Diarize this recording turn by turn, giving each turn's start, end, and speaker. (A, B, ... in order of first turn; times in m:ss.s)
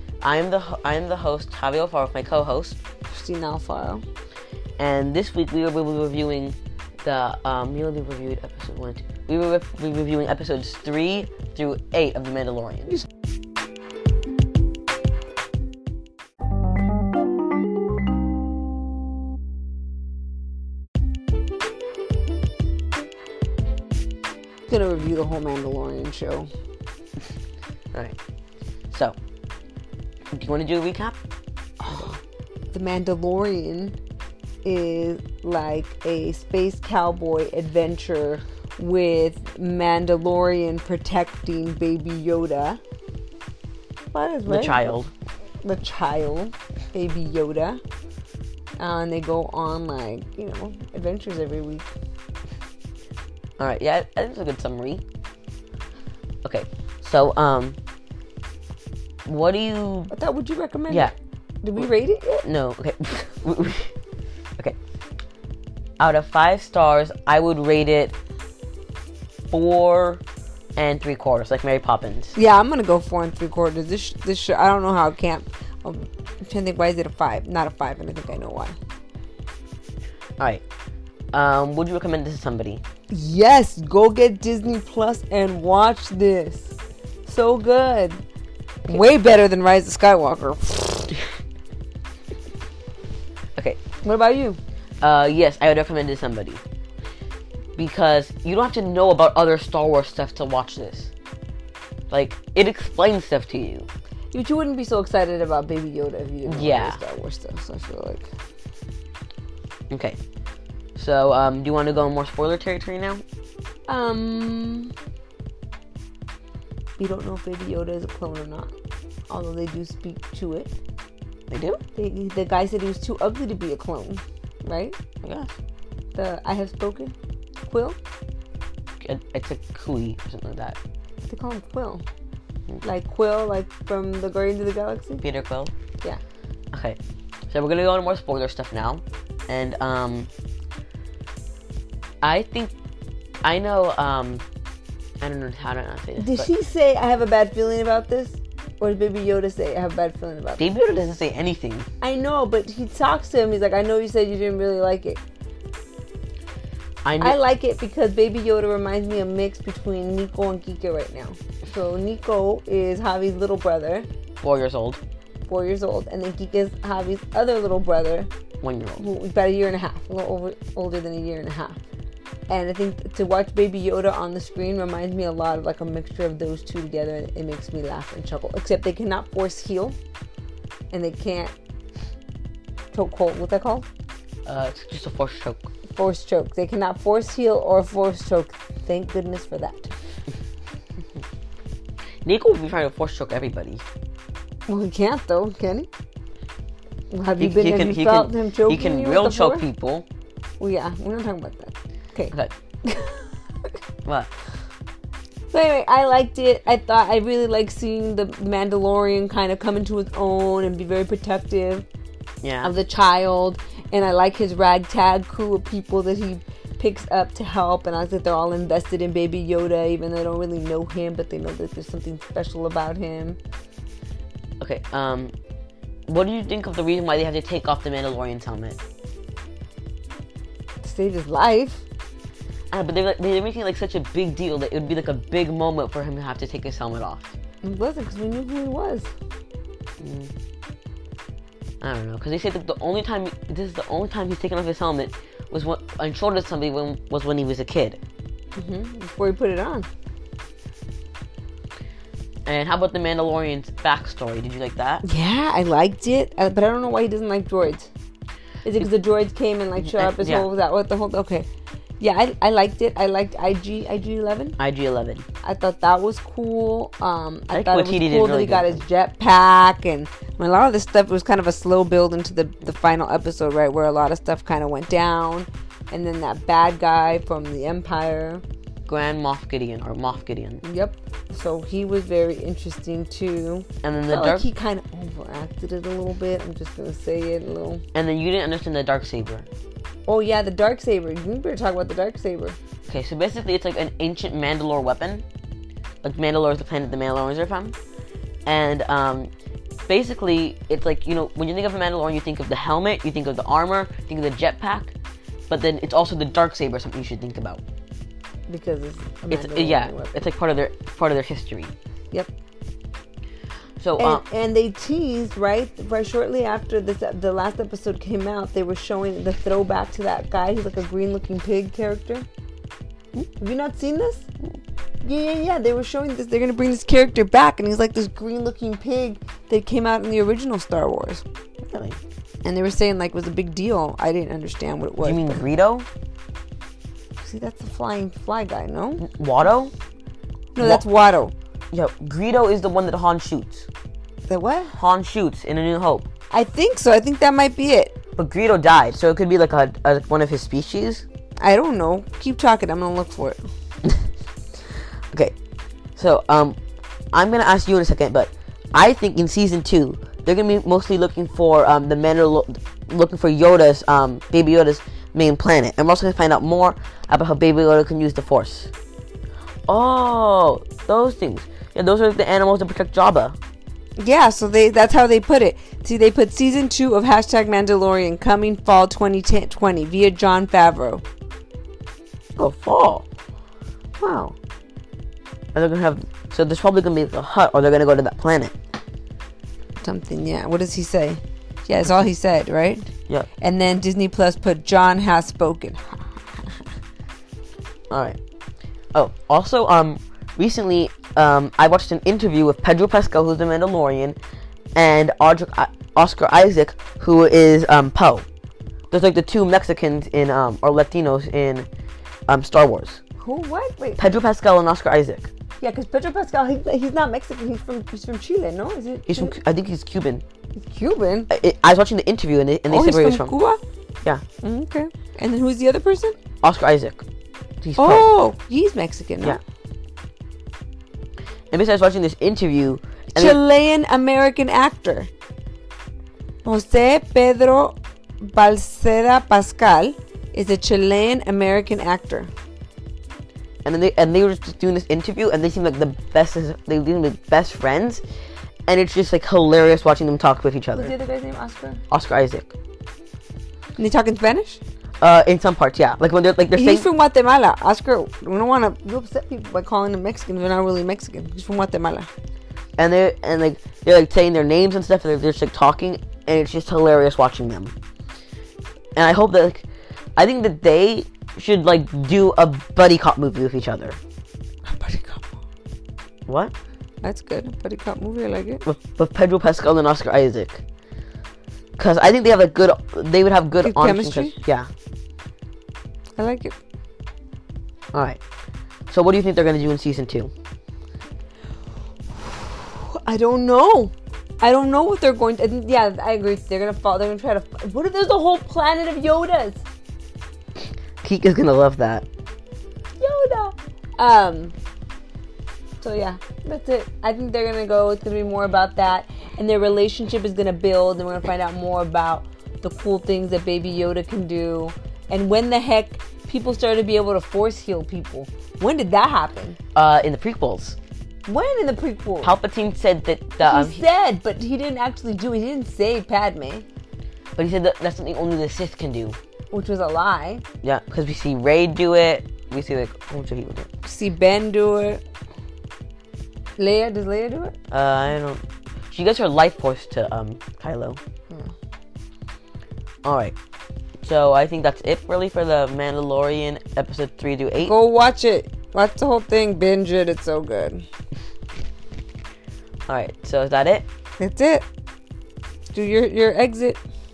0:00.2-0:02.8 A
0:03.1-0:04.0 B
0:04.8-0:13.0 A
0:24.7-0:26.5 B
0:28.9-0:29.2 A
0:30.3-0:31.2 A
0:31.8-0:32.2 B
0:32.7-0:34.0 B
0:34.6-0:42.8 B
0:44.1-0:45.0 B
0:44.5-0:45.1 A
0:45.6-0:47.8 B
0:48.8-0:51.9 B
0:53.6-0:55.0 A
0:56.4-0:57.8 A
0:59.2-1:00.1 A
1:00.1-1:02.4 B
1:00.9-1:01.1 A
1:02.4-1:03.9 A
1:06.0-1:08.1 A
1:09.5-1:10.2 A
1:10.8-1:12.4 A
1:12.3-1:18.8 B
1:21.3-1:22.8 A
1:23.1-1:28.2 B
1:28.9-1:31.2 B
1:34.0-1:34.6 B
1:35.0-1:36.6 A
1:37.8-1:41.1 A
1:42.1-1:43.9 A
1:44.3-1:48.3 B
1:46.4-1:47.0 A
1:49.9-1:50.2 A
1:51.0-1:53.2 A
1:53.9-1:54.9 B
1:57.0-1:58.7 B
1:59.3-2:00.7 B
2:01.5-2:01.8 A
2:02.0-2:05.0 B
2:05.2-2:05.6 A
2:06.1-2:07.1 B
2:07.6-2:08.0 B
2:09.0-2:10.8 A
2:11.3-2:12.0 B
2:12.8-2:15.2 B
2:15.2-2:15.7 A
2:16.7-2:20.3 A
2:22.2-2:22.7 A
2:23.4-2:24.4 A
2:25.2-2:26.5 A
2:26.2-2:30.7 B
2:30.6-2:31.9 A
2:32.0-2:35.2 B
2:37.0-2:37.4 A
2:37.2-2:44.1 B
2:44.4-2:45.0 A
2:45.5-2:48.3 B
2:48.6-2:49.1 A
2:49.0-2:51.8 B
2:52.5-3:00.0 B
3:00.9-3:01.6 B
3:02.9-3:03.9 B
3:04.5-3:05.7 A
3:05.9-3:09.9 B
3:12.2-3:13.8 A
3:14.7-3:15.9 B
3:17.1-3:19.7 B
3:17.4-3:20.1 A
3:20.6-3:22.3 B
3:22.8-3:23.3 B
3:24.1-3:24.3 A
3:25.5-3:31.9 B
3:32.4-3:32.7 A
3:32.6-3:43.4 B
3:44.6-3:45.3 A
3:46.1-3:48.8 A
3:50.8-3:51.8 B
3:52.7-3:57.3 A
3:57.6-3:59.1 B
4:00.0-4:00.3 A
4:01.8-4:08.0 A
4:08.6-4:09.9 B
4:12.4-4:15.0 A
4:15.0-4:17.9 B
4:18.6-4:21.5 B
4:19.8-4:20.5 A
4:22.0-4:24.6 B
4:24.6-4:25.2 A
4:25.4-4:38.4 B
4:27.5-4:28.8 A
4:38.9-4:40.6 A
4:40.6-4:47.8 B
4:43.8-4:44.5 A
4:47.9-4:49.5 A
4:50.1-4:52.6 B
4:52.9-4:55.2 A
4:56.0-4:57.8 A
4:58.4-4:59.3 A
4:59.9-5:04.9 A
5:05.5-5:07.6 A
5:08.5-5:10.3 B
5:09.3-5:11.7 A
5:13.8-5:14.2 A
5:14.0-5:22.3 B
5:23.4-5:24.3 B
5:25.0-5:31.2 B
5:31.6-5:32.0 A
5:32.4-5:35.4 B
5:35.0-5:35.9 A
5:37.2-5:39.0 B
5:39.0-5:39.7 A
5:40.6-5:41.3 B
5:40.6-5:40.8 A
5:41.7-5:43.7 A
5:44.3-5:44.7 B
5:44.7-5:46.1 A
5:46.3-5:47.9 B
5:48.2-5:51.0 A
5:51.4-5:53.4 B
5:56.0-5:56.6 A
5:57.1-6:08.7 A
6:09.7-6:13.4 A
6:14.0-6:21.0 B
6:22.4-6:23.0 A
6:24.0-6:24.3 A
6:25.5-6:28.6 A
6:29.8-6:32.9 B
6:33.4-6:36.7 B
6:37.9-6:38.2 A
6:38.9-6:44.2 A
6:44.8-6:48.2 A
6:48.9-6:51.7 A
6:52.3-6:53.0 A
6:53.2-6:54.0 B
6:54.0-6:55.3 A
6:55.6-6:59.4 B
6:59.1-7:00.2 A
7:00.6-7:01.3 B
7:01.3-7:03.3 A
7:02.7-7:03.6 B
7:04.4-7:06.2 B
7:06.4-7:07.0 A
7:07.6-7:08.1 A
7:07.8-7:09.4 B
7:11.5-7:13.4 A
7:13.2-7:15.1 B
7:16.4-7:22.3 B
7:23.6-7:28.0 A
7:28.7-7:30.9 A
7:30.8-7:31.8 B
7:31.9-7:32.5 A
7:33.8-7:34.6 B
7:35.0-7:36.9 A
7:36.6-7:42.1 B
7:42.8-7:47.7 A
7:49.0-7:49.6 A
7:50.2-7:54.0 A
7:54.7-7:55.4 B
7:56.3-7:56.5 A
7:57.0-7:58.6 B
7:58.6-8:00.6 A
8:01.8-8:04.7 A
8:03.6-8:04.4 B
8:06.2-8:06.6 B
8:07.9-8:08.2 A
8:08.9-8:10.3 A
8:12.2-8:19.6 B
8:21.0-8:22.1 A
8:23.0-8:24.6 B
8:25.8-8:39.6 B
8:39.8-8:40.8 A
8:41.2-8:42.3 B
8:42.2-8:43.8 A
8:43.4-8:46.6 B
8:47.4-8:49.2 A
8:49.5-8:50.4 B
8:50.6-8:53.7 A
8:53.8-8:55.0 B
8:56.6-8:57.5 B
8:57.7-9:01.0 A
9:03.0-9:03.3 A
9:04.0-9:07.7 A
9:07.6-9:10.8 B
9:12.9-9:13.8 A
9:14.2-9:14.6 B
9:15.7-9:16.8 B